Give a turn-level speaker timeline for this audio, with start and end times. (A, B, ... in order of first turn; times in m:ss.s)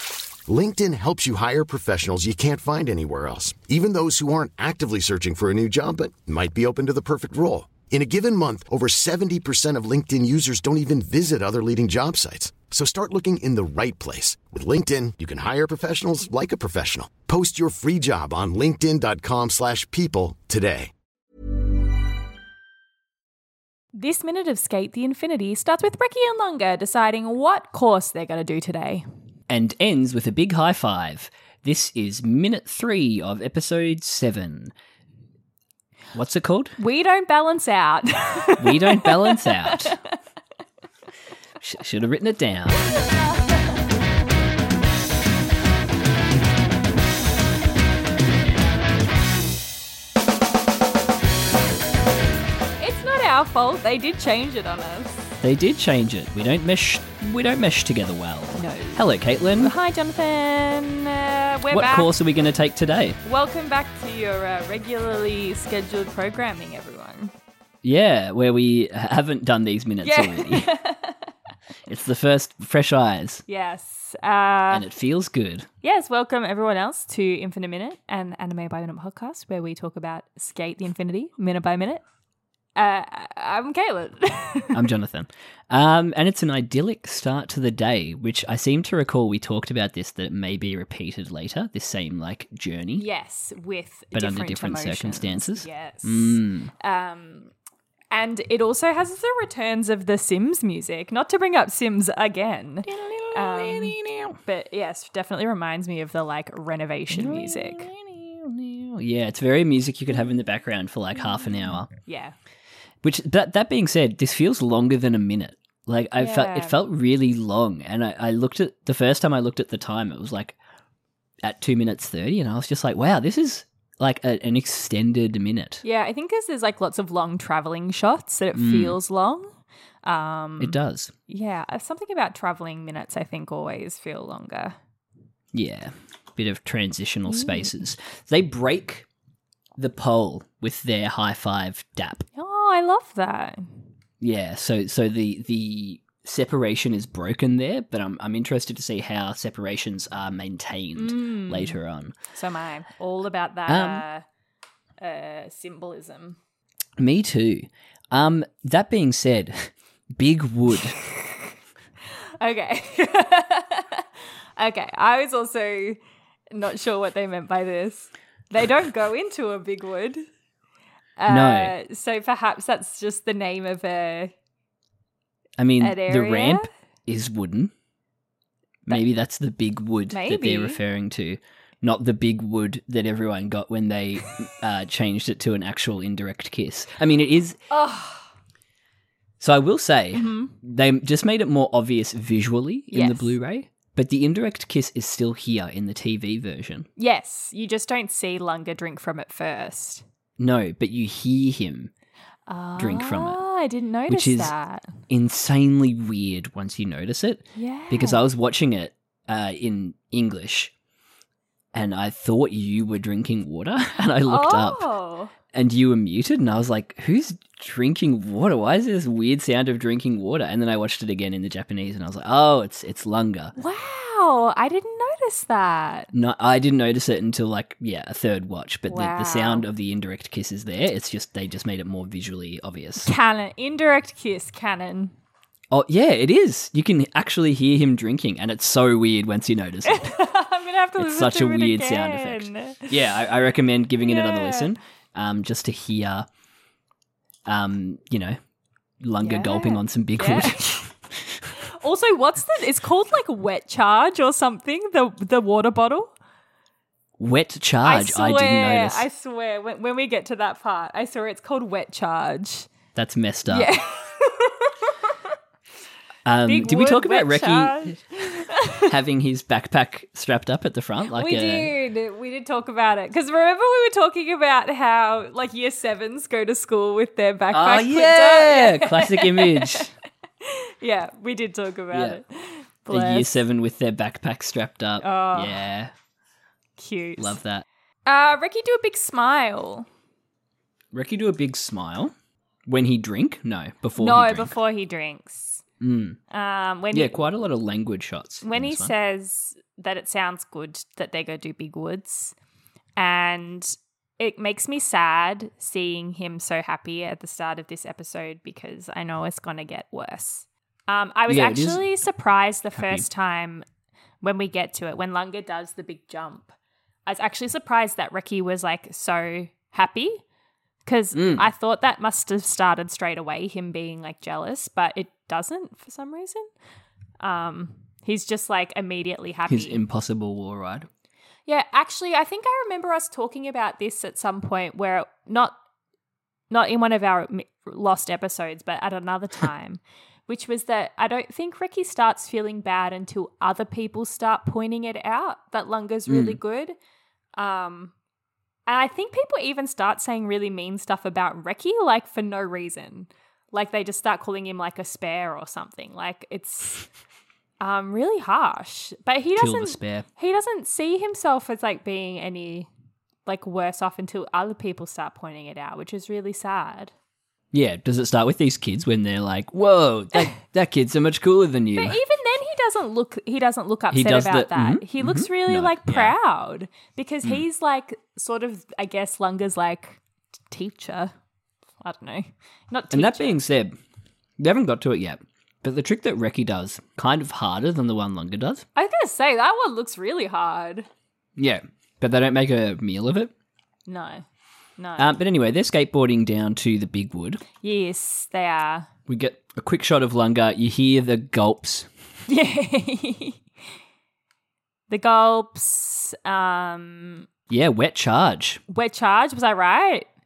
0:00.5-0:20.9 A
0:23.9-0:29.0 B
0:29.5-0:34.7 C
0:36.1-0:36.8 C
0:36.8-0:39.9 B
0:38.6-0:40.0 C
0:41.6-0:42.9 C
0:43.0-0:43.3 B
0:52.8-0:55.3 B
0:55.4-0:59.8 C
0:58.6-1:02.1 B
1:01.7-1:03.2 C
1:03.2-1:07.3 B
1:07.8-1:10.7 C
1:10.0-1:11.3 B
1:11.9-1:13.4 C
1:13.5-1:14.8 B
1:14.7-1:15.7 C
1:15.8-1:22.0 B
1:22.8-1:24.8 B
1:24.7-1:33.1 C
1:33.0-1:37.5 B
1:34.1-1:36.7 C
1:38.1-1:47.9 B
1:42.9-1:44.4 C
1:47.1-1:51.9 C
1:52.0-1:52.4 B
1:53.0-2:00.6 C
1:56.2-1:56.8 B
2:01.4-2:05.8 C
2:05.8-2:09.5 B
2:08.6-2:09.0 C
2:10.0-2:10.8 B
2:10.6-2:11.1 C
2:11.3-2:14.8 B
2:15.5-2:19.1 C
2:17.3-2:17.7 B
2:19.8-2:22.3 C
2:22.4-2:23.9 B
2:24.2-2:32.1 C
2:31.0-2:31.8 B
2:32.3-2:34.2 B
2:33.7-2:34.0 C
2:35.0-2:36.4 B
2:37.0-2:41.0 C
2:42.4-2:44.0 B
2:44.6-2:46.0 B
2:46.5-2:50.3 B
2:51.2-2:54.3 B
2:51.3-2:51.7 C
2:55.6-2:57.7 C
2:55.8-2:56.7 B
2:58.9-3:07.6 C
3:00.1-3:00.8 B
3:07.7-3:08.3 B
3:09.4-3:16.9 C
3:10.2-3:10.6 B
3:12.9-3:13.4 B
3:17.0-3:20.0 B
3:20.4-3:21.9 C
3:22.5-3:25.0 B
3:22.8-3:23.4 C
3:24.1-3:24.5 C
3:25.1-3:30.7 C
3:27.6-3:28.2 B
3:31.7-3:34.9 C
3:34.3-3:35.3 B
3:35.5-3:43.6 C
3:43.6-3:46.1 B
3:46.1-3:53.1 C
3:48.9-3:49.7 B
3:53.0-3:55.1 B
3:55.7-4:00.2 C
3:59.9-4:02.9 B
4:01.0-4:06.3 C
4:04.0-4:04.8 B
4:07.5-4:08.4 C
4:09.0-4:11.5 C
4:09.2-4:10.9 B
4:11.6-4:16.1 B
4:17.2-4:19.1 C
4:17.8-4:22.7 B
4:23.0-4:23.7 C
4:23.5-4:25.1 B
4:26.2-4:31.7 C
4:26.5-4:28.9 B
4:31.1-4:39.8 B
4:37.5-4:39.9 C
4:40.4-4:43.4 B
4:41.9-4:42.2 C
4:42.9-4:45.9 C
4:45.0-4:45.6 B
4:46.8-4:47.4 B
4:47.2-4:47.6 C
4:48.1-4:49.9 B
4:50.9-4:52.1 C
4:52.7-4:54.6 C
4:54.0-4:55.6 B
4:55.8-4:56.2 C
4:56.3-4:57.2 B
4:56.9-4:58.9 C
4:58.4-5:02.4 B
5:03.0-5:13.6 B
5:11.3-5:11.9 C
5:12.7-5:13.1 C
5:14.2-5:16.5 B
5:17.1-5:20.2 B
5:20.8-5:26.5 B
5:21.1-5:21.5 C
5:27.2-5:29.8 B
5:29.5-5:30.9 C
5:31.5-5:35.6 B
5:36.5-5:46.8 B
5:46.1-5:46.4 C
5:47.4-5:47.9 B
5:48.7-5:56.9 B
5:57.6-6:02.7 B
5:59.4-6:00.1 C
6:03.3-6:06.9 B
6:07.5-6:12.0 C
6:11.8-6:20.0 B
6:13.9-6:16.2 C
6:20.5-6:21.1 B
6:21.8-6:23.4 B
6:22.9-6:23.8 C
6:24.4-6:28.6 C
6:28.8-6:30.9 B
6:31.4-6:33.3 C
6:33.9-6:34.2 B
6:34.8-6:35.2 B
6:35.0-6:37.4 C
6:37.6-6:38.9 B
6:39.1-6:41.9 C
6:42.3-6:43.4 B
6:44.9-6:47.3 B
6:47.5-6:48.6 C
6:48.7-6:50.1 B